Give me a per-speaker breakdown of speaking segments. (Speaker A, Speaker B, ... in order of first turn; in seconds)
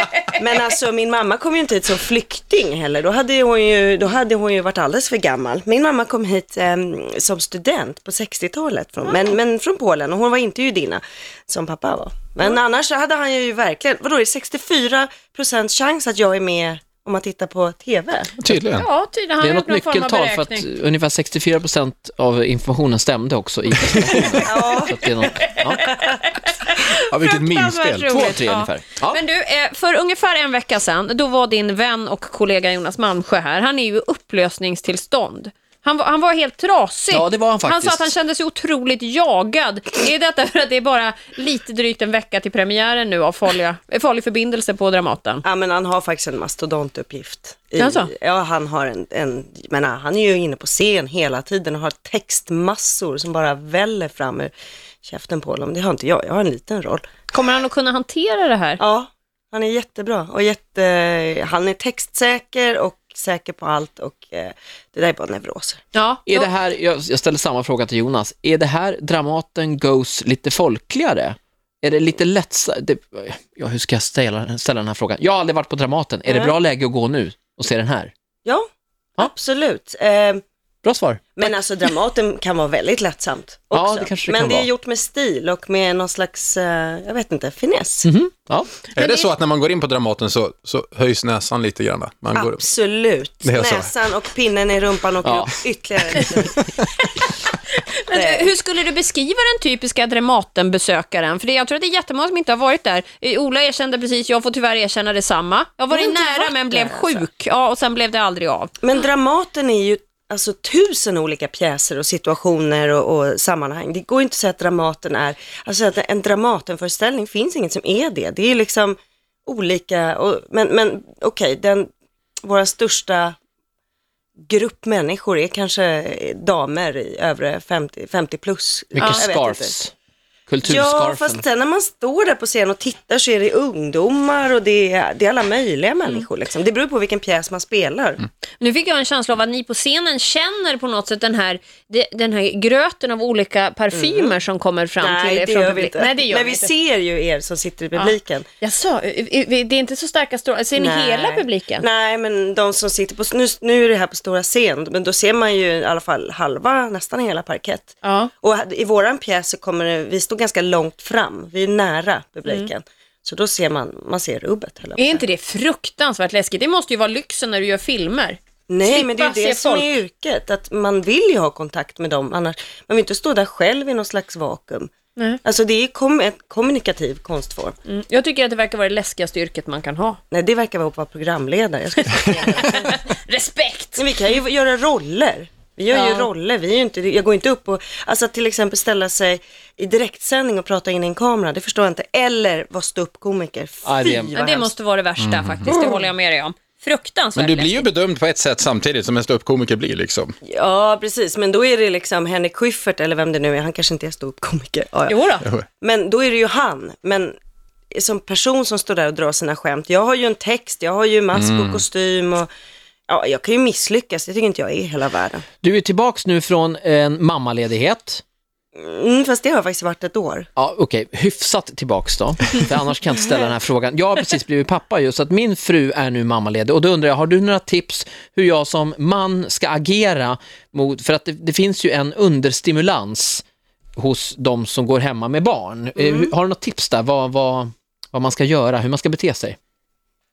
Speaker A: 0.3-18.3, 24.4-26.1, 45.4-54.5, 55.0-57.1, 58.8-65.8, 76.3-76.5, 79.2-80.4, 81.3-88.1, 92.3-96.7, 98.1-98.5, 105.9-107.3, 108.8-121.9, 122.4-123.4, 124.4-129.8, 130.6-138.2, 143.9-144.4, 145.0-148.4, 150.7-165.2, 168.7-174.9, 175.4-177.7, 180.3-182.9, 184.0-194.7, 195.7-196.0, 200.5-207.3, 207.9-212.5, 213.1-215.4, 218.7-220.5, 236.0-236.3
Speaker B: 18.4-18.9, 24.1-24.4, 26.9-28.1, 89.0-92.6, 93.4-93.9, 195.2-195.8, 197.3-200.3, 211.3-211.8
Speaker C: 18.7-20.6, 25.2-45.4, 47.8-48.1, 57.3-58.8, 65.9-66.5, 89.0-89.3, 98.0-108.7, 138.6-146.7, 147.9-151.8, 158.0-158.3, 165.0-170.0, 177.8-180.2, 182.2-184.0, 185.9-186.3, 194.3-197.8, 205.1-205.4
Speaker D: 19.4-25.9, 28.1-29.2, 37.1-38.1, 66.2-78.1, 80.8-81.5, 83.7-84.7, 88.0-88.7, 95.2-95.5, 128.9-129.9, 130.5-131.4, 193.8-194.3, 215.6-218.2, 220.6-233.4, 233.9-239.6